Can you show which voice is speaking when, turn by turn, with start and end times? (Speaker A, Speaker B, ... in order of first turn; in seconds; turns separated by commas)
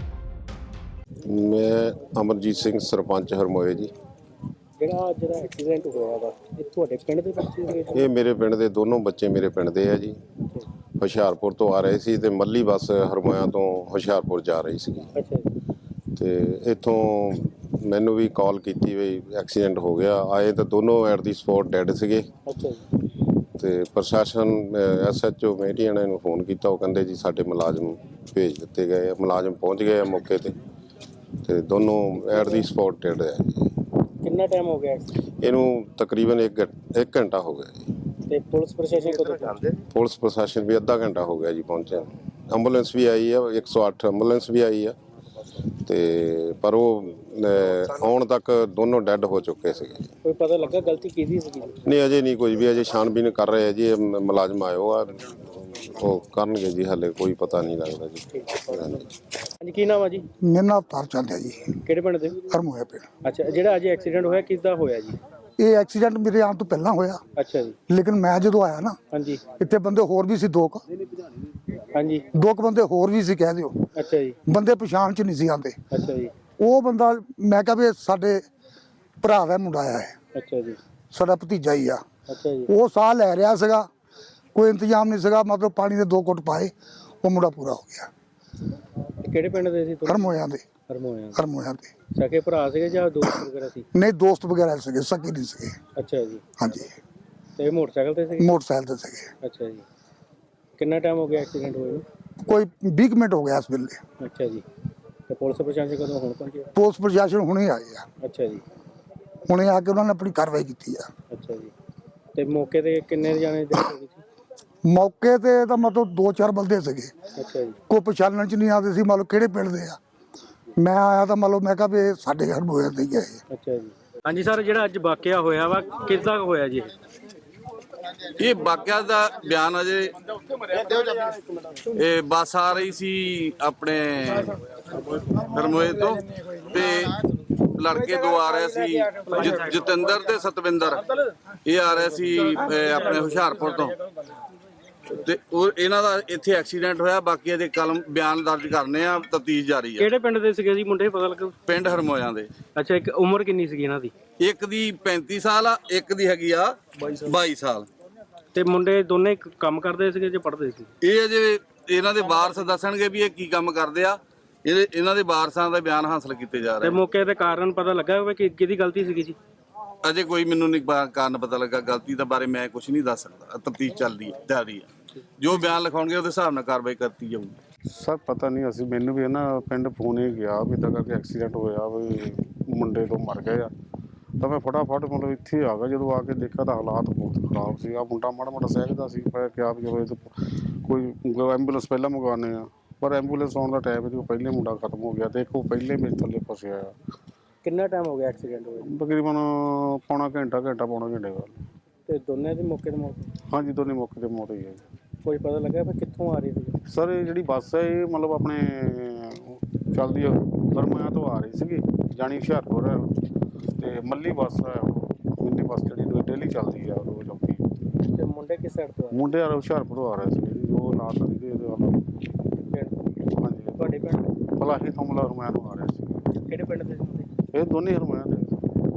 Speaker A: 1.2-3.9, Speaker B: 4.8-8.1, Speaker A: 8.0-10.2, Speaker A: 11.0-15.1, Speaker B: 15.2-15.5, Speaker A: 16.1-22.3, Speaker B: 22.4-22.8, Speaker A: 23.6-30.6, Speaker A: 31.4-33.7, Speaker B: 34.2-35.1, Speaker A: 35.4-37.8, Speaker B: 38.3-39.6, Speaker A: 39.8-45.0, Speaker A: 45.5-50.1, Speaker B: 50.2-51.8, Speaker A: 51.8-59.1, Speaker B: 59.6-60.3, Speaker C: 60.4-61.8, Speaker B: 61.9-62.4, Speaker C: 62.5-63.1, Speaker B: 63.2-65.2, Speaker C: 65.6-67.2, Speaker B: 67.4-67.8, Speaker C: 67.9-70.8, Speaker B: 69.1-69.4, Speaker B: 71.9-72.3, Speaker C: 72.3-73.8, Speaker B: 73.9-74.4, Speaker C: 74.5-75.8, Speaker B: 75.9-76.3, Speaker C: 76.6-78.4, Speaker C: 79.2-80.2, Speaker B: 80.3-80.8, Speaker C: 81.1-82.0, Speaker B: 82.3-82.7, Speaker C: 82.7-83.9, Speaker C: 84.5-88.1, Speaker B: 89.2-90.3, Speaker C: 90.1-90.6, Speaker B: 90.9-91.4, Speaker C: 91.3-91.9, Speaker B: 92.1-93.8, Speaker C: 93.9-95.8, Speaker B: 96.0-96.4, Speaker C: 96.6-96.9, Speaker B: 97.6-98.5, Speaker C: 98.4-99.3, Speaker B: 99.4-99.8, Speaker B: 100.8-102.0, Speaker C: 102.4-104.0, Speaker B: 104.2-104.7, Speaker B: 105.3-106.7, Speaker C: 106.8-108.1, Speaker B: 108.2-108.6, Speaker C: 109.5-111.1, Speaker B: 111.3-111.7, Speaker B: 112.3-114.2, Speaker C: 114.8-117.1, Speaker B: 117.3-117.8, Speaker C: 117.9-120.0, Speaker C: 120.8-123.4, Speaker B: 123.5-126.9, Speaker D: 128.3-131.0, Speaker D: 131.9-134.6, Speaker D: 135.2-141.1, Speaker D: 141.7-144.0, Speaker D: 145.1-150.1, Speaker B: 150.0-151.6, Speaker D: 151.7-152.5, Speaker B: 152.8-154.1, Speaker D: 154.4-157.9, Speaker B: 158.5-160.9, Speaker D: 161.0-167.0, Speaker B: 166.8-169.3, Speaker D: 170.0-177.6, Speaker E: 177.9-183.7, Speaker E: 184.4-190.3, Speaker E: 190.8-196.9, Speaker B: 197.6-198.9, Speaker E: 198.9-201.6, Speaker B: 202.1-203.3, Speaker E: 203.5-204.8, Speaker B: 205.2-206.8, Speaker E: 206.9-213.1, Speaker E: 213.8-217.6, Speaker B: 218.0-219.2, Speaker E: 219.1-222.0, Speaker B: 222.6-223.1, Speaker E: 223.3-226.1, Speaker B: 223.8-224.3, Speaker B: 226.3-227.3, Speaker E: 227.5-228.6